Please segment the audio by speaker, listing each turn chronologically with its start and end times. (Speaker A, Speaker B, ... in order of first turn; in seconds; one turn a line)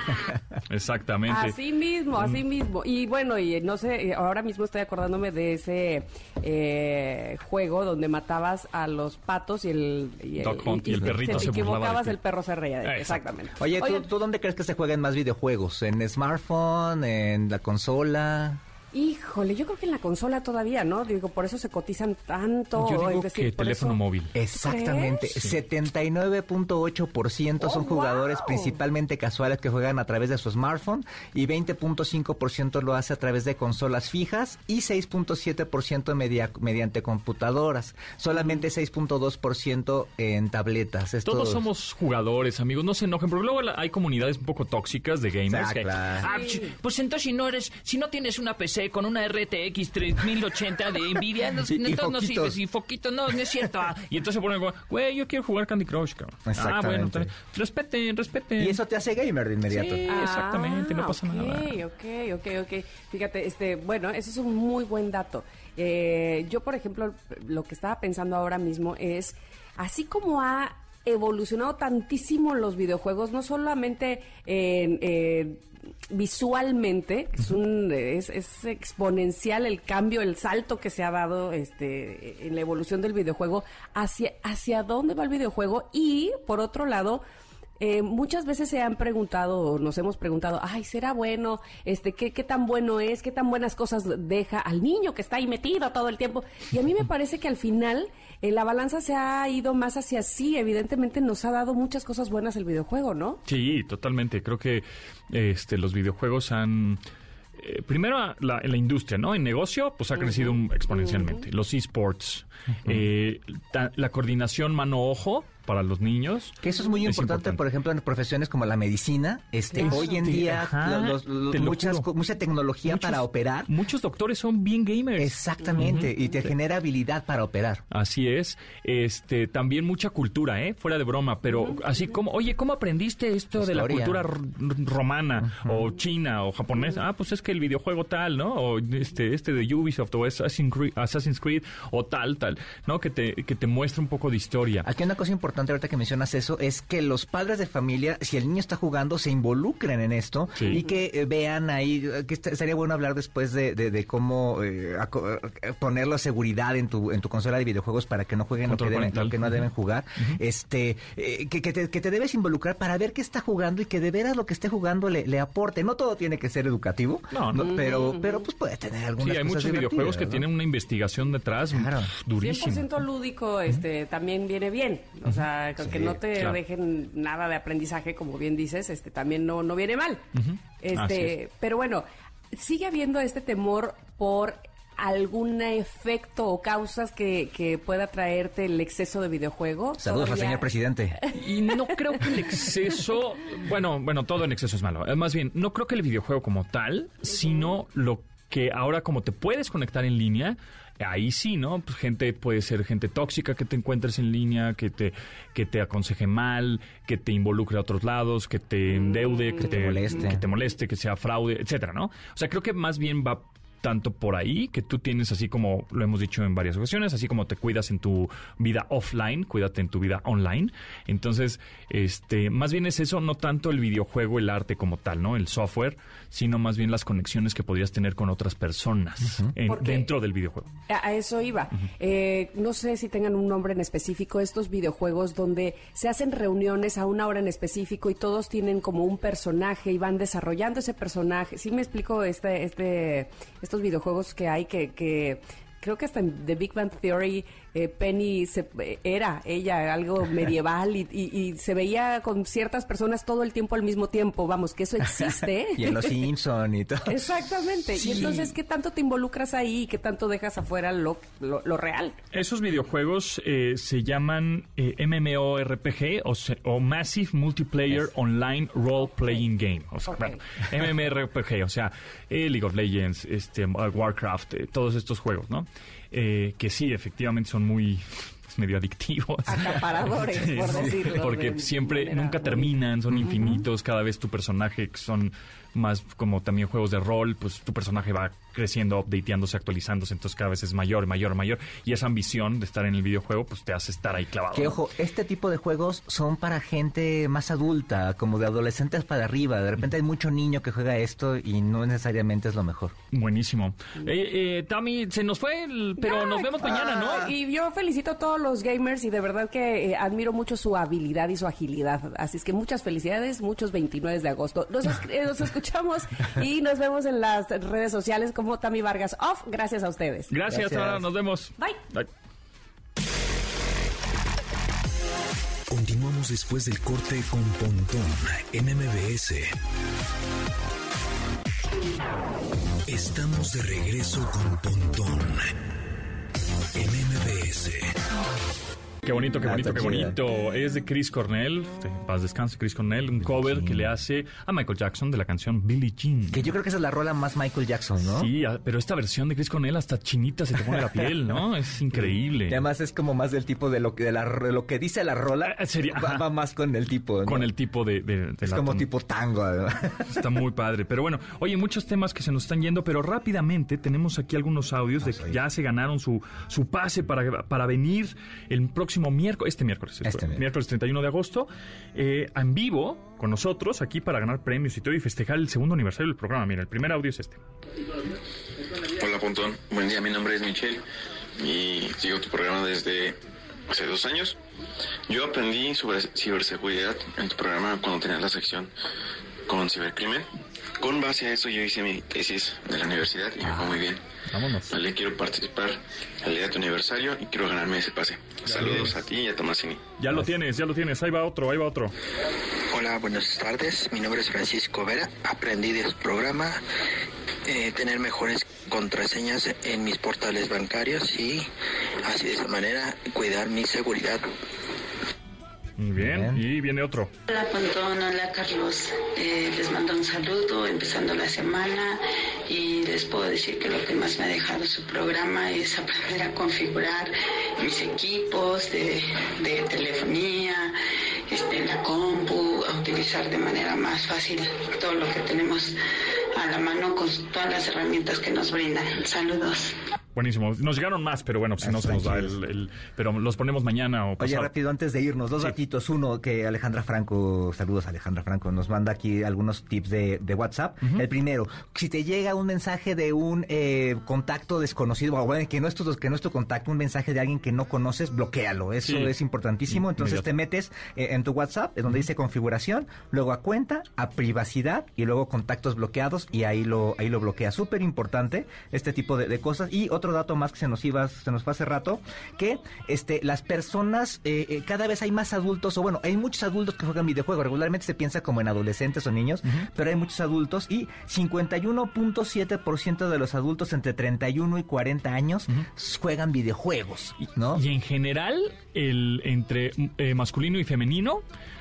Speaker A: 0.7-1.6
Speaker B: 1.3-14.1
Speaker A: 2.1-2.4
Speaker A: 10.4-12.2
Speaker C: 11.2-11.5
Speaker A: 12.8-13.3
Speaker C: 13.6-18.6
Speaker B: 18.9-25.3
Speaker A: 22.8-24.3
Speaker C: 24.3-41.6
Speaker B: 27.6-28.8
Speaker A: 41.2-58.8
Speaker C: 45.5-46.3
Speaker B: 46.2-46.7
Speaker C: 51.6-52.6
Speaker C: 56.5-57.3
Speaker C: 58.6-60.0
Speaker B: 59.7-87.2
Speaker A: 60.0-61.8
Speaker B: 87.8-103.4
Speaker A: 103.5-107.0
Speaker A: 107.6-117.6
Speaker B: 110.2-111.5
Speaker C: 116.6-123.7
Speaker B: 119.7-120.2
Speaker A: 119.8-122.1
Speaker A: 122.8-126.1
Speaker C: 125.2-127.8
Speaker B: 125.6-126.3
Speaker A: 127.9-144.9
Speaker B: 131.5-132.1
Speaker C: 133.6-134.3
Speaker C: 135.4-135.9
Speaker C: 144.8-170.4
Speaker A: 158.6-159.6
Speaker A: 167.3-167.7
Speaker B: 167.6-168.4
Speaker A: 169.2-173.0
Speaker C: 171.7-172.1
Speaker B: 172.4-180.2
Speaker C: 175.8-176.2
Speaker A: 176.3-176.6
Speaker A: 180.4-181.3
Speaker B: 180.8-190.7
Speaker C: 190.0-191.2
Speaker B: 191.3-192.6
Speaker A: 191.3-230.7
Speaker B: 208.9-209.6
Speaker C: 209.6-210.4
Speaker B: 229.6-230.1
Speaker B: 230.9-256.2
Speaker C: 255.0-257.2
Speaker B: 257.1-262.2
Speaker C: 257.9-258.5
Speaker A: 262.3-294.8
Speaker B: 269.1-269.4
Speaker B: 270.1-270.4
Speaker B: 279.4-282.7
Speaker C: 294.5-302.9
Speaker A: 303.1-307.3
Speaker B: 306.0-320.3
Speaker C: 306.7-307.3
Speaker A: 320.3-322.1
Speaker C: 320.5-321.0
Speaker D: 325.7-329.5
Speaker D: 332.9-335.5
Speaker D: 336.7-337.9
Speaker A: 339.0-346.5
Speaker C: 339.4-340.2
Speaker C: 343.3-343.9
Speaker C: 346.3-348.3
Speaker A: 348.0-352.6
Speaker C: 350.6-351.1
Speaker C: 351.9-357.5
Speaker A: 355.4-356.2
Speaker A: 357.2-358.9
Speaker C: 358.4-360.2
Speaker A: 360.1-377.4
Speaker C: 365.0-365.4
Speaker C: 370.0-370.4
Speaker E: 378.9-380.8
Speaker E: 381.4-384.4
Speaker E: 385.1-388.7
Speaker E: 389.5-390.3
Speaker E: 390.8-394.0
Speaker A: 393.4-394.7
Speaker E: 394.7-399.8
Speaker A: 398.4-399.0
Speaker A: 400.0-401.9
Speaker F: 402.7-406.6
Speaker F: 407.4-411.5
Speaker F: 412.0-414.2
Speaker A: 415.8-417.1
Speaker C: 416.0-416.4
Speaker G: 417.3-430.8
Speaker G: 431.3-435.8
Speaker G: 436.3-439.7
Speaker A: 440.1-444.5
Speaker C: 441.6-442.4
Speaker C: 444.2-487.6
Speaker A: 458.8-459.1
Speaker A: 459.7-460.2
Speaker A: 487.2-491.2